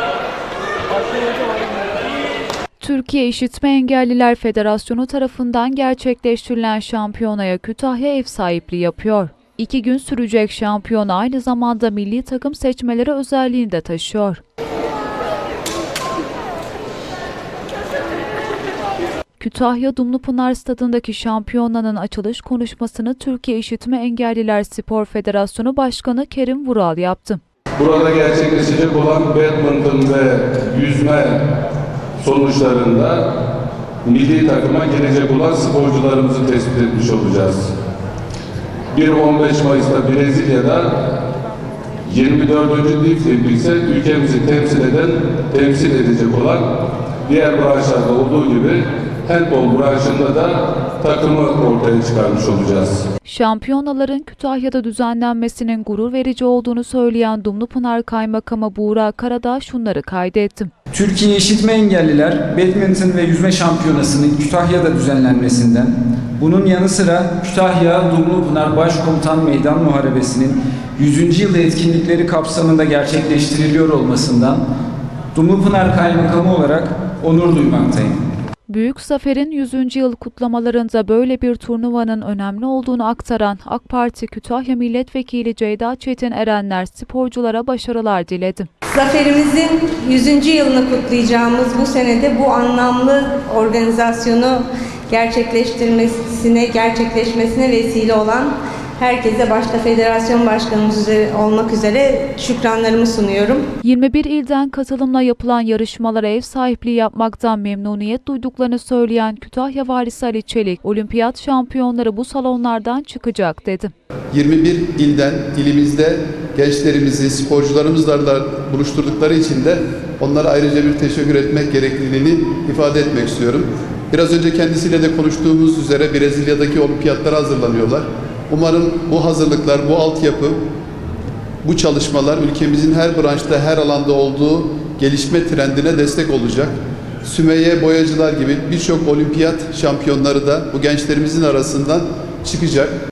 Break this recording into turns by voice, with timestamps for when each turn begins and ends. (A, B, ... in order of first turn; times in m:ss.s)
0:02.8-0:14.4 A
0:19.4-0:27.4 A
0:27.8-0:31.5 B
0:32.2-0:33.2 B
0:34.0-0:37.7 B
0:38.9-0:41.1 B
0:42.0-0:46.6 B
0:47.3-0:53.0 B
0:53.2-1:00.7 A
1:00.9-1:14.6 C
1:15.4-1:18.2 C
1:18.7-1:28.7 A
1:28.9-1:43.6 D
1:43.8-1:53.9 A
1:54.3-2:10.6 E
2:11.6-2:22.9 E